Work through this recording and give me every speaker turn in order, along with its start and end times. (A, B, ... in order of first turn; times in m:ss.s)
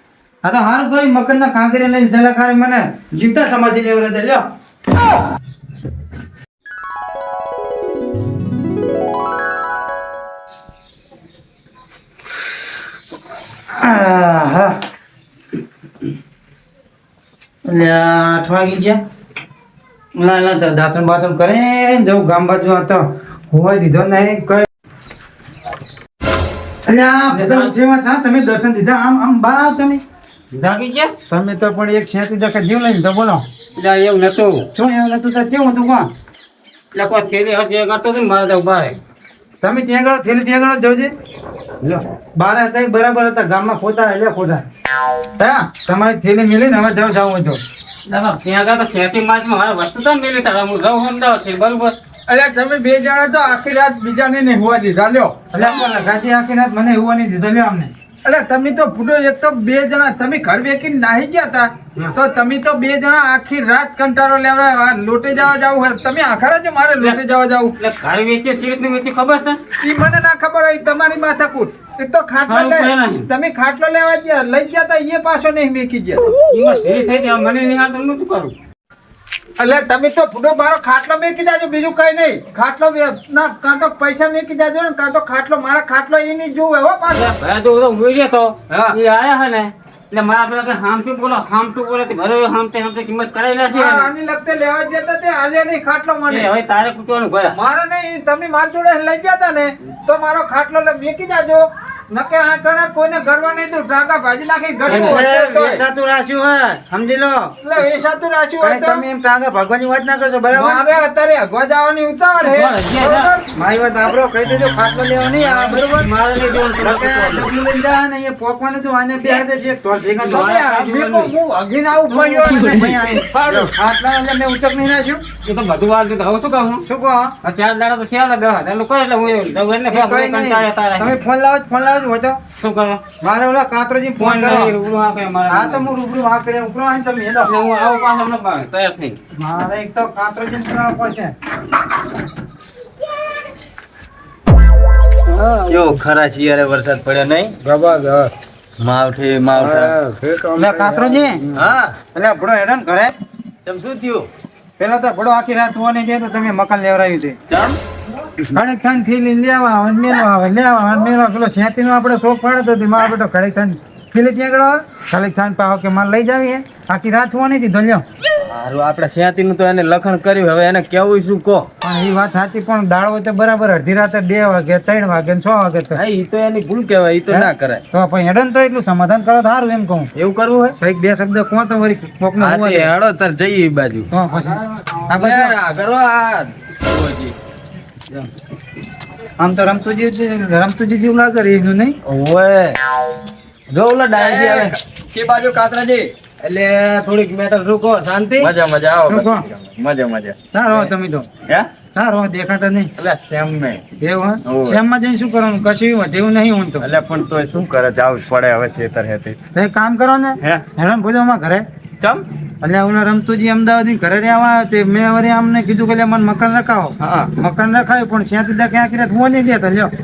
0:00.4-0:04.4 A
0:13.7-0:14.8 A
0:17.6-0:19.0 A
0:20.2-0:24.6 A
0:26.8-0:30.0 A
0:27.4-0:27.7 B
0:30.5-0:31.1 B
0:31.3-0:33.4 A
0:33.8-0:34.6 B
0:34.7-0:36.1 A
0:36.9-0:39.0 B
0:39.6-0:41.1 A
0:42.4-0:44.6 A
0:45.4-0:47.6 A
0:48.0-0:52.0 B
0:52.3-0:55.4 C
0:55.5-0:57.9 A
0:58.2-1:07.7 C
1:07.8-1:09.6 B
1:09.8-1:16.3 C
1:12.5-1:13.3 B
1:16.4-1:18.5 B
1:19.6-1:27.2 C
1:27.1-1:34.1 B
1:33.7-1:36.5 C
1:36.3-1:37.6 B
1:37.5-1:45.8 C
1:44.9-1:45.2 B
1:44.9-1:47.5 A
1:47.6-1:49.0 C
1:48.6-1:50.8 A
1:50.5-1:53.5 C
1:52.4-1:53.3 B
1:53.5-1:56.1 A
1:56.0-1:57.5 B
1:56.8-2:00.6 A
2:00.2-2:01.3 B
2:00.3-2:03.7 C
2:02.0-2:05.2 A
2:05.4-2:06.8 B
2:06.8-2:07.3 A
2:07.4-2:11.2 B
2:09.9-2:12.4 A
2:12.6-2:13.0 B
2:13.2-2:14.7 A
2:14.2-2:15.9 B
2:15.5-2:17.5 A
2:17.4-2:19.2 B
2:19.3-2:21.3 A
2:25.3-2:25.8 B
2:25.7-2:31.9 D
2:29.4-2:30.0 E
2:30.6-2:31.4 A
2:32.1-2:33.1 A
2:33.6-2:34.3 D
2:34.8-2:37.4 A
2:37.5-2:37.8 D
2:38.5-2:48.0 A
2:48.4-2:51.7 D
2:51.8-2:56.0 A
2:56.0-2:57.8 D
2:57.3-3:00.1 A
3:00.2-3:00.7 D
3:00.8-3:02.9 A
3:02.4-3:04.1 D
3:04.1-3:05.6 A
3:05.1-3:07.3 D
3:09.4-3:12.0 A
3:12.0-3:12.8 D
3:13.7-3:14.7 D
3:14.2-3:16.1 E
3:16.4-3:18.5 D
3:18.4-3:20.9 E
3:19.1-3:19.4 A
3:20.5-3:21.3 A
3:21.9-3:22.9 A
3:23.0-3:23.8 E
3:24.0-3:26.9 A
3:24.4-3:24.8 E
3:26.8-3:29.4 E
3:29.5-3:31.6 A
3:32.0-3:32.2 E
3:32.6-3:39.9 A
3:37.0-3:37.3 E